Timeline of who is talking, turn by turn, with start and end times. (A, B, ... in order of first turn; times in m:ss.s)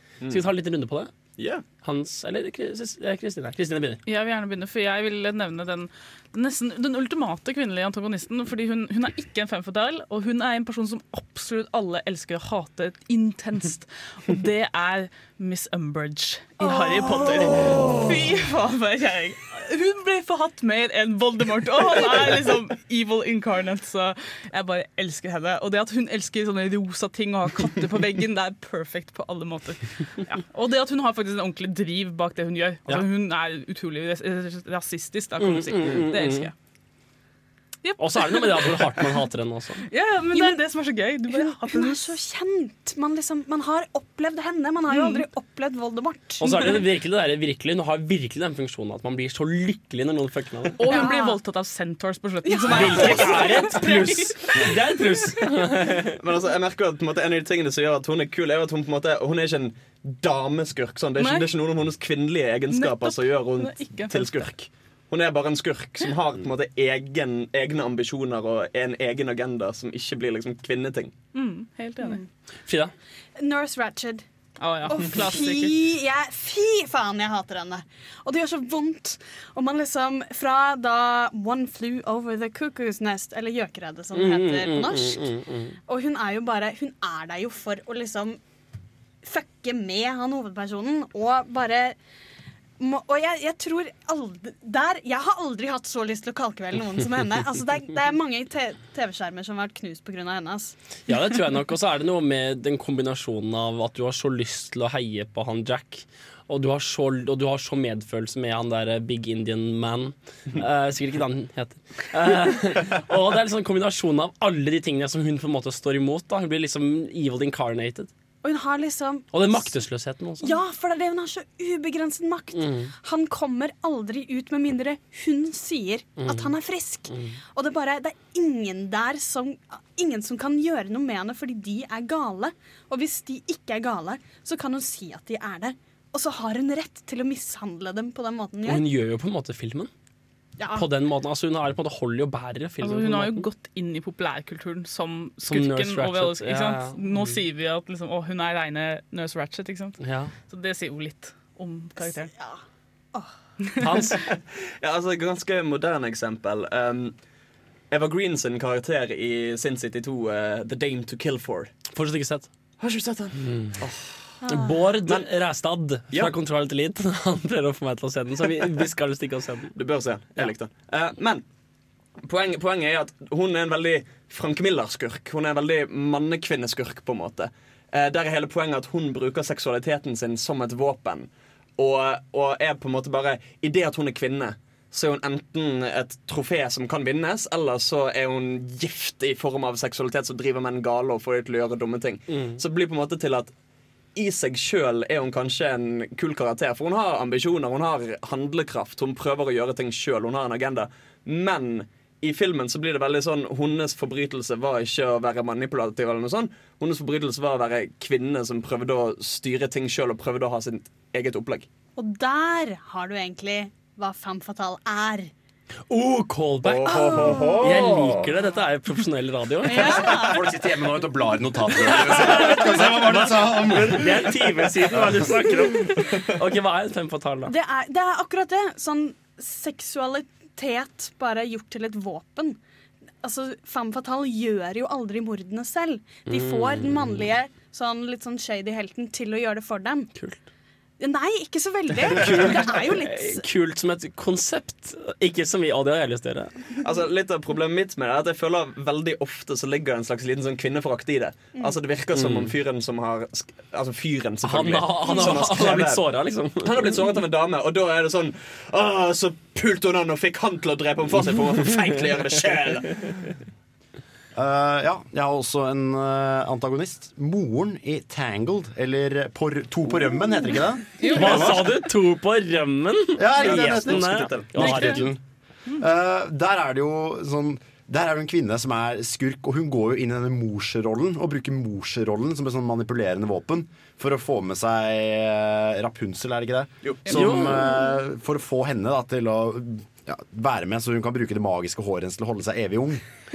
0:00.2-0:00.4 A
0:00.3-0:01.1 B
0:01.4-0:01.6 A
0:01.8-0:04.0 B
0:04.0-0:36.5 C
0:16.8-0:18.1 D
0:17.7-0:18.0 A
0:35.4-0:36.5 B
0:37.8-0:39.0 C
0:38.0-0:39.8 B
0:39.9-0:42.0 C
0:40.3-0:40.6 D
0:41.3-0:46.8 D
0:44.9-0:45.2 C
0:46.4-0:50.8 B
0:50.8-0:54.2 C
0:50.9-0:51.4 D
0:52.4-0:55.2 D
0:52.7-0:56.2 B
0:56.2-1:11.1 A
1:01.2-1:01.5 C
1:02.7-1:04.3 C
1:11.3-1:12.2 C
1:12.0-1:12.3 D
1:12.7-1:12.9 B
1:13.4-1:14.2 D
1:14.6-1:15.7 C
1:14.8-1:25.3 D
1:24.1-1:25.8 B
1:25.9-1:28.4 D
1:29.2-1:32.0 D
1:32.8-1:40.7 D
1:41.1-1:58.1 B
1:58.4-1:59.7 D
1:59.3-2:00.6 B
2:00.4-2:18.8 D
2:02.5-2:02.9 B
2:06.2-2:06.5 B
2:07.1-2:07.4 B
2:18.6-2:19.9 B
2:20.6-2:20.9 D
2:20.7-2:23.5 B
2:22.8-2:32.3 C
2:25.4-2:27.4 B
2:30.0-2:30.3 B
2:32.0-2:32.6 D
2:33.8-2:37.1 A
2:37.9-2:41.7 A
2:41.9-2:42.5 B
2:42.8-2:44.3 A
2:43.4-2:43.8 B
2:44.4-2:44.8 D
2:44.5-2:49.7 B
2:49.7-2:51.4 A
2:52.2-3:13.5 A
3:12.3-3:12.6 B
3:14.1-3:31.7 A
3:32.0-3:35.3 D
3:35.9-3:40.1 B
3:36.6-3:38.2 A
3:36.9-3:37.6 D
3:39.6-3:40.4 D
3:39.8-3:45.3 E
3:41.7-3:47.5 B
3:47.5-3:52.6 D
3:53.2-4:00.1 D
3:56.3-3:57.2 B
4:01.0-4:03.4 D
4:02.1-4:06.6 B
4:06.8-4:16.0 A
4:12.1-4:12.5 B
4:14.4-4:17.0 B
4:15.0-4:15.4 D
4:16.6-4:22.9 A
4:24.3-4:31.6 E
4:31.1-4:35.2 B
4:33.2-4:35.1 E
4:33.4-4:34.9 A
4:34.6-4:34.9 C
4:35.8-4:53.0 E
4:46.8-4:47.3 A
4:47.1-4:47.8 B